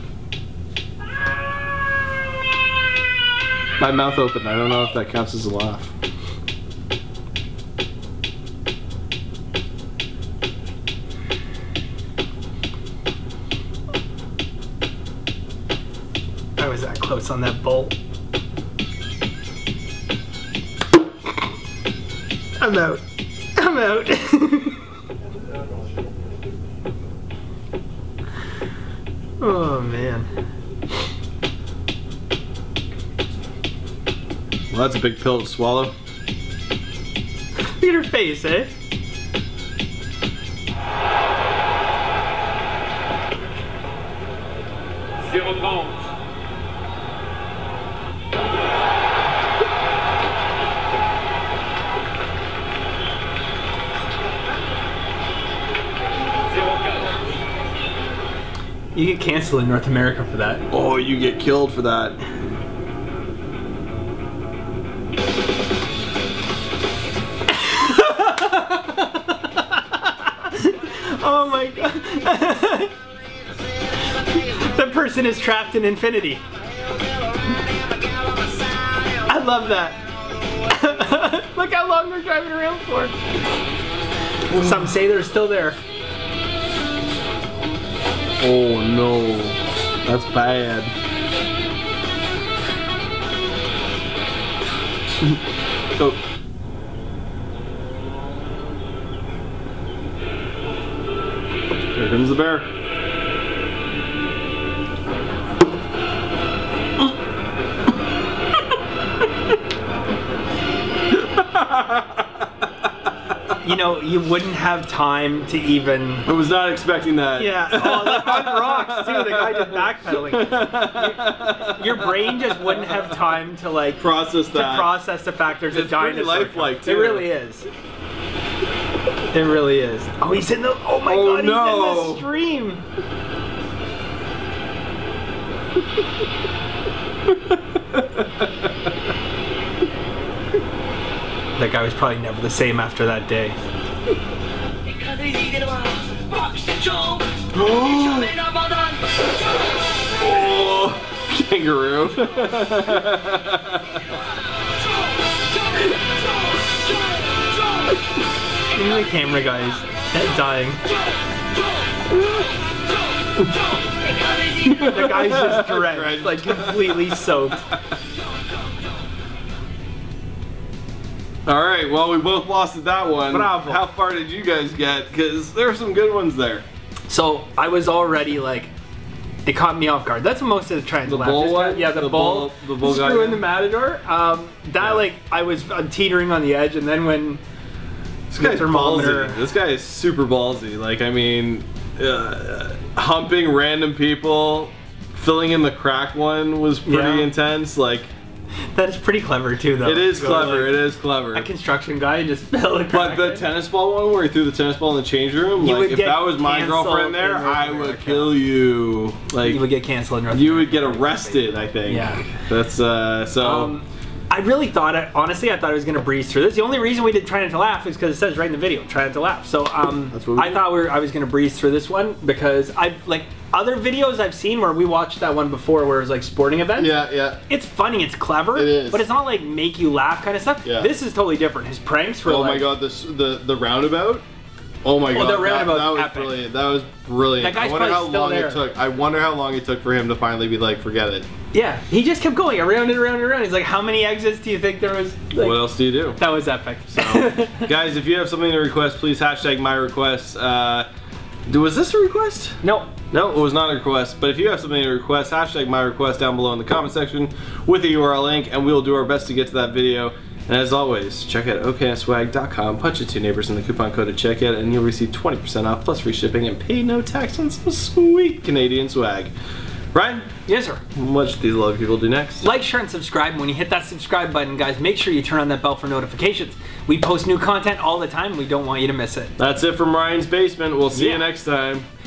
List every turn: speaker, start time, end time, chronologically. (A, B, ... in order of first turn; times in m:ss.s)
0:03.8-0:05.9 A
0:16.6-0:18.0 B
0:22.6-0:23.0 B
0:23.6-0:24.8 B
0:29.4-0:30.3 B
0:34.7-0:35.9 A
0:37.8-0:38.7 B
0:58.9-1:00.6 B
1:00.7-1:02.2 A
1:07.5-1:12.9 B
1:14.3-1:16.4 B
1:19.3-1:20.0 B
1:20.7-1:23.1 B
1:24.5-1:25.8 B
1:28.4-1:30.9 A
1:41.9-1:42.7 A
1:51.2-1:52.2 A
1:53.6-1:56.3 B
1:56.3-2:02.9 A
1:57.4-2:07.7 B
2:04.0-2:04.9 A
2:05.7-2:07.3 A
2:09.3-2:12.8 B
2:11.0-2:12.2 A
2:21.6-2:23.6 B
2:25.1-2:27.3 B
2:27.5-2:28.5 A
2:30.2-2:33.9 A
2:38.8-2:40.8 B
2:44.6-2:47.2 A
2:44.8-2:47.7 B
2:51.5-2:56.6 A
2:53.3-2:53.8 B
2:57.1-2:58.7 B
2:59.4-3:07.4 B
3:01.0-3:03.4 A
3:08.3-3:18.1 A
3:08.4-3:09.4 B
3:16.9-3:17.3 B
3:18.7-3:23.5 B
3:19.8-3:21.5 A
3:22.9-3:29.6 A
3:25.6-3:28.4 B
3:29.4-3:32.3 B
3:30.3-3:33.7 A
3:33.4-3:52.7 B
3:40.1-3:40.6 A
3:46.8-3:47.4 A
3:48.6-3:49.0 A
3:50.6-3:50.9 A
3:52.2-3:54.2 A
3:54.8-4:01.3 A
3:55.1-3:56.4 B
3:57.4-3:58.6 B
4:01.5-4:07.7 B
4:05.4-4:06.2 A
4:06.9-4:10.9 A
4:11.5-4:29.3 A
4:12.6-4:12.9 B
4:29.9-4:30.3 A
4:30.5-4:30.8 B
4:31.0-4:32.5 A
4:32.4-4:39.3 B
4:39.4-4:41.9 A
4:40.9-4:41.3 B